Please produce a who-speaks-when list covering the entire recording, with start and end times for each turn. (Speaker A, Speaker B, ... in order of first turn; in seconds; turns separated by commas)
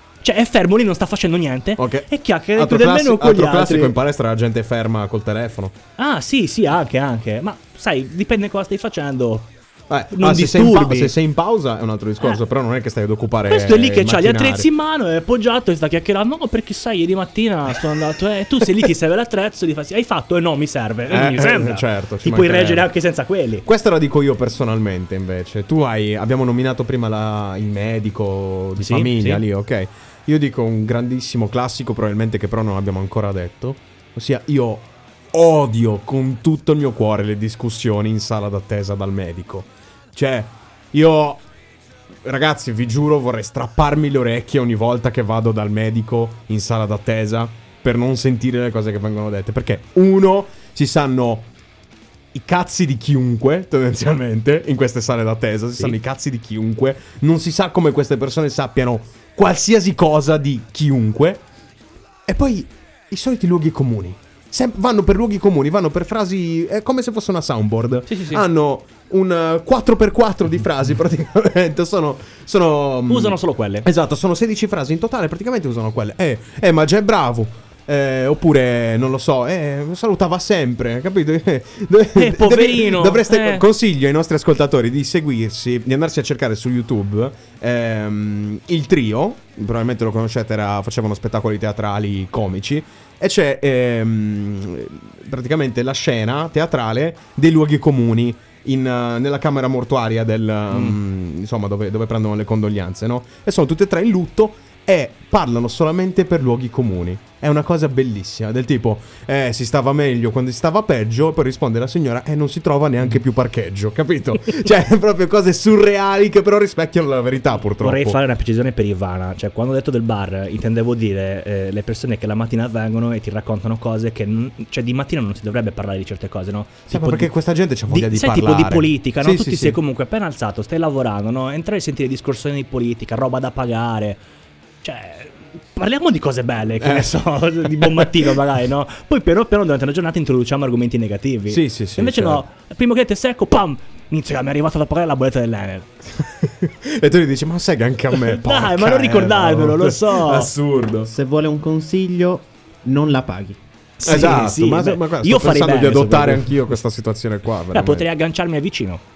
Speaker A: 0.2-4.0, Speaker B: 1.8-5.8, Speaker A: 6.0-9.5, Speaker B: 9.9-14.7, Speaker A: 10.1-11.2, Speaker A: 13.5-23.7, Speaker B: 21.1-22.9, Speaker B: 23.6-41.4, Speaker A: 28.8-29.4, Speaker B: 42.2-51.5, Speaker B: 52.3-61.4, Speaker B: 62.3-118.2, Speaker A: 68.1-68.4, Speaker A: 73.1-73.9, Speaker A: 82.2-83.7, Speaker A: 100.7-101.0, Speaker A: 117.8-127.3, Speaker B: 126.9-129.8, Speaker A: 127.9-134.2, Speaker A: 134.8-145.9, Speaker B: 136.8-138.4, Speaker B: 141.5-142.4, Speaker B: 146.2-151.1, Speaker A: 148.1-150.5, Speaker C: 151.1-153.6, Speaker A: 154.0-156.6, Speaker B: 154.1-158.1, Speaker A: 157.7-159.0